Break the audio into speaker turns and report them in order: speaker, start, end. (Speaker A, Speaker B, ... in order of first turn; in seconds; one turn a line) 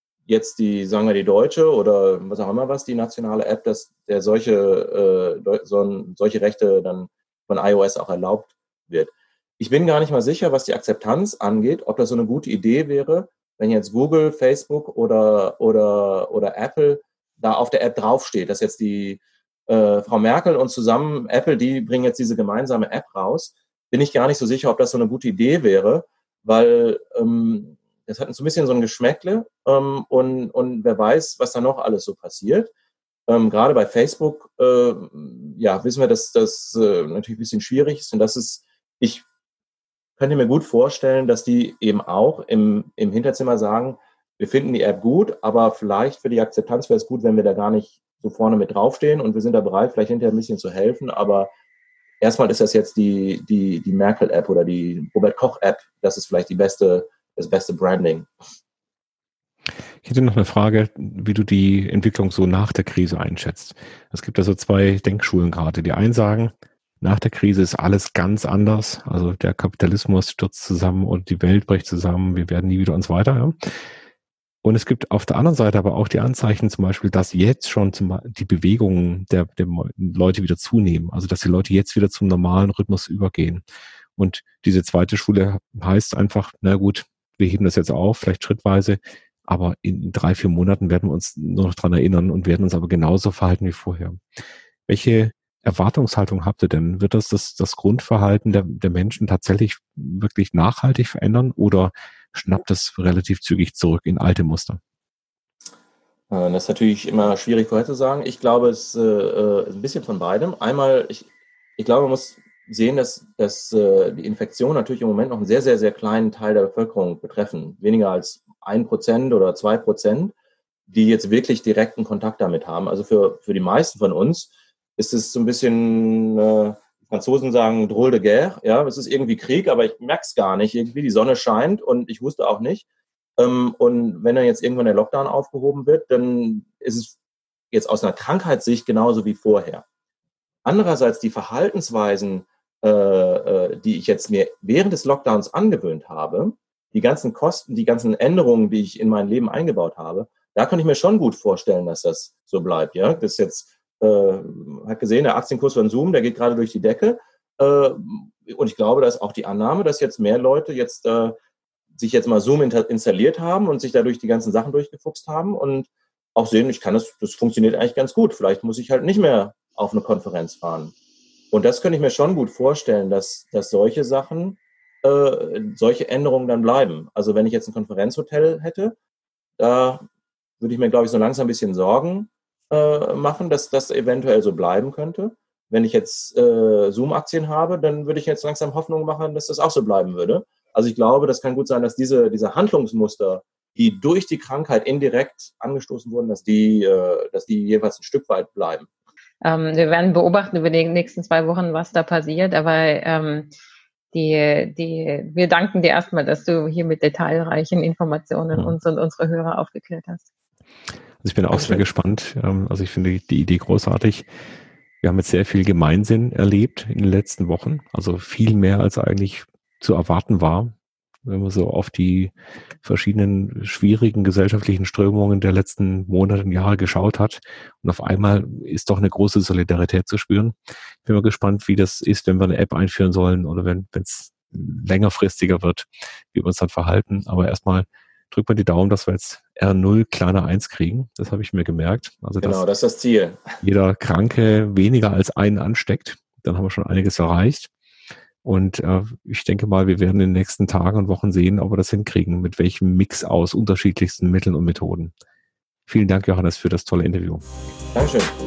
Speaker A: 0.3-32.7
Speaker A: 33.3-39.2
Speaker A: 40.2-51.5
Speaker A: 52.2-58.3
Speaker B: 60.0-73.5
Speaker B: 74.6-83.6
Speaker B: 84.2-94.2
Speaker B: 94.9-104.8
Speaker A: 106.3-120.3
Speaker A: 120.9-132.8
Speaker A: 133.4-137.2
Speaker A: 137.7-139.8
Speaker A: 140.7-161.3
Speaker A: 161.9-170.9
Speaker A: 171.5-178.9
Speaker A: 179.6-180.0
Speaker A: 180.6-198.9
Speaker C: 199.4-203.5
Speaker C: 204.1-210.3
Speaker B: 211.2-214.3
Speaker A: 211.5-211.8
Speaker B: 215.0-242.6
Speaker A: 242.4-243.6
Speaker B: 243.6-247.7
Speaker B: 248.4-255.1
Speaker B: 255.9-257.4
Speaker A: 257.9-258.3